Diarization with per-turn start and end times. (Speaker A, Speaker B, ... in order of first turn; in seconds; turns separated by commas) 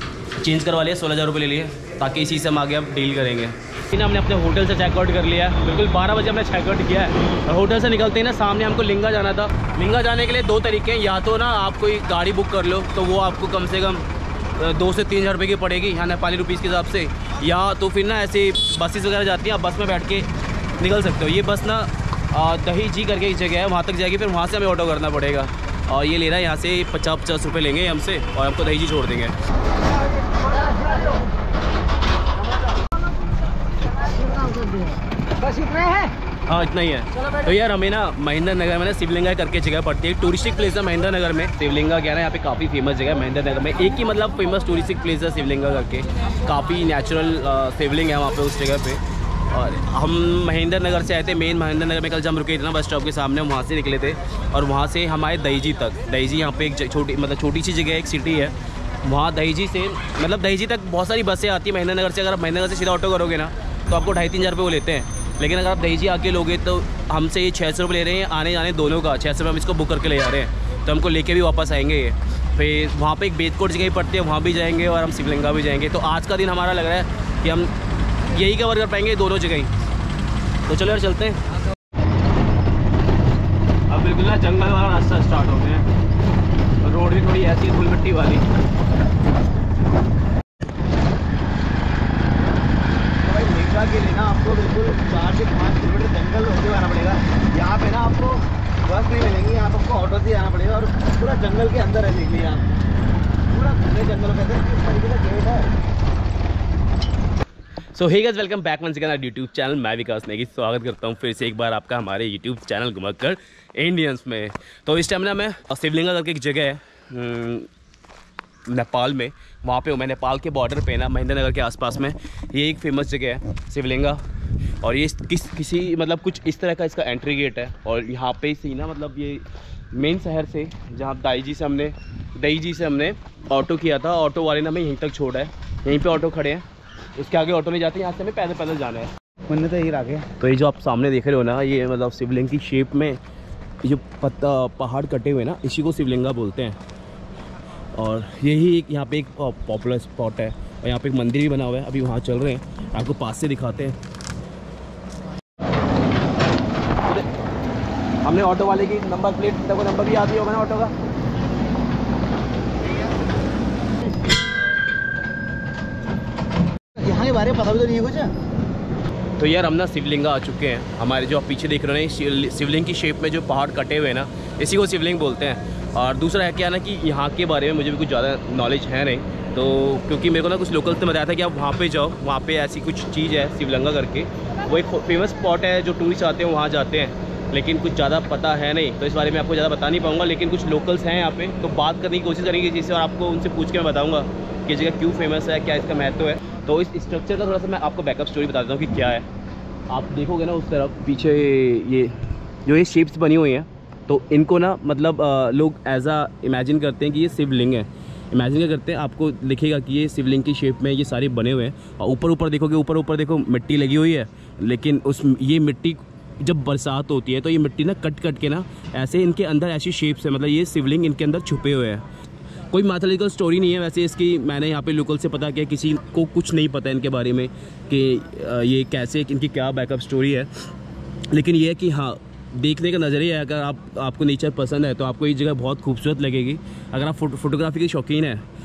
Speaker A: 0.4-29.4, Speaker B: 35.4-36.1, Speaker A: 36.5-79.7, Speaker A: 80.7-81.4, Speaker A: 83.9-85.9, Speaker A: 86.8-88.5, Speaker B: 93.2-102.6, Speaker B: 103.5-105.7, Speaker A: 108.0-117.7, Speaker A: 118.7-124.2, Speaker A: 124.8-136.7, Speaker A: 137.2-139.1, Speaker B: 139.5-140.2, Speaker A: 140.4-143.2, Speaker A: 143.8-146.8, Speaker A: 147.9-154.0, Speaker A: 158.2-160.9, Speaker B: 167.0-168.3, Speaker A: 169.4-199.3, Speaker A: 199.9-222.0, Speaker A: 222.7-230.5, Speaker A: 231.3-238.4